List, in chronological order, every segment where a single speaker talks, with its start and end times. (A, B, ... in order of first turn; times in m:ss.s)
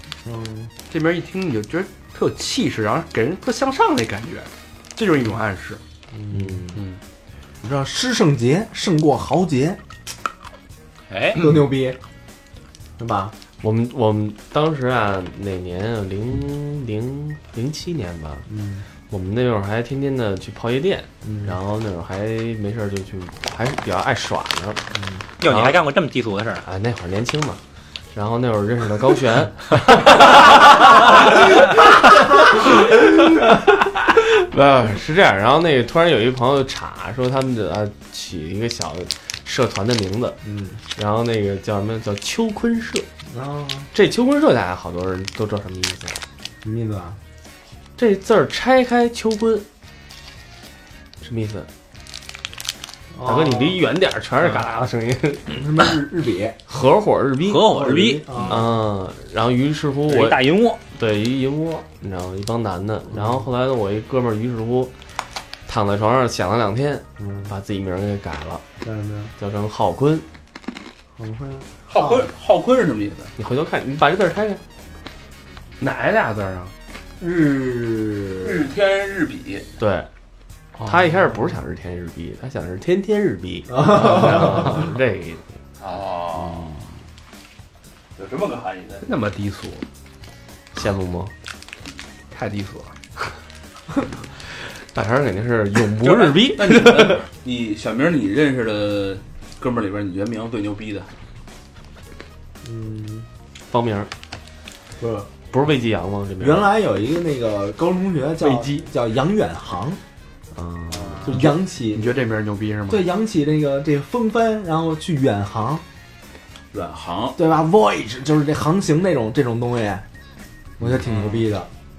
0:00.3-0:00.7 A
0:00.9-0:05.8 B
0:06.3-0:06.7 C
0:06.3-0:06.8 A
0:07.6-0:09.8 A
0:11.1-0:11.5 D
0:11.4-0:12.0 A
0:13.0-0:13.4 A
0:13.6-0:18.5 C
0:18.5-0:18.8 A
0:19.1-0:24.9 C
0:21.2-0:21.5 A
0:25.0-0:25.2 A
0:25.4-0:26.6 D
0:25.4-0:25.8 C
0:26.6-0:27.6 C
0:28.1-0:31.6 C
0:32.2-0:40.4 C
0:40.4-0:40.8 A
0:40.9-0:43.1 C
0:43.3-0:43.9 A
0:43.9-0:46.2 C
0:46.6-0:47.2 A
0:48.0-0:49.7 C
0:51.2-0:51.7 C
0:53.1-0:53.8 A
0:53.2-0:55.6 C
0:55.5-0:56.6 A
0:56.7-0:57.7 C
0:57.4-0:58.6 D
0:57.6-0:58.7 A
0:58.5-1:04.9 C
1:00.1-1:00.8 D
1:05.7-1:08.6 C
1:08.8-1:09.3 A
1:09.4-1:10.3 C
1:11.2-1:12.3 A
1:11.9-1:13.3 E
1:13.4-1:14.6 C
1:15.8-1:16.7 B
1:17.2-1:18.7 A
1:18.4-1:19.7 E
1:19.8-1:20.1 C
1:20.8-1:25.4 C
1:23.7-1:24.8 A
1:25.8-1:26.8 E
1:28.2-1:29.1 E
1:29.0-1:29.8 B
1:30.7-1:31.3 C
1:32.3-1:32.9 B
1:34.9-1:37.2 C
1:36.0-1:41.1 E
1:42.6-1:43.2 A
1:43.7-1:44.1 C
1:45.0-1:45.3 A
1:45.5-1:46.7 C
1:46.4-1:50.0 A
1:48.4-1:48.9 B
1:50.6-1:51.2 C
1:50.9-1:51.4 E
1:51.2-1:52.1 A
1:51.3-1:53.1 B
1:52.9-1:55.8 A
1:56.7-1:57.4 E
1:57.4-2:00.0 A
2:00.8-2:01.7 A
2:01.1-2:01.4 E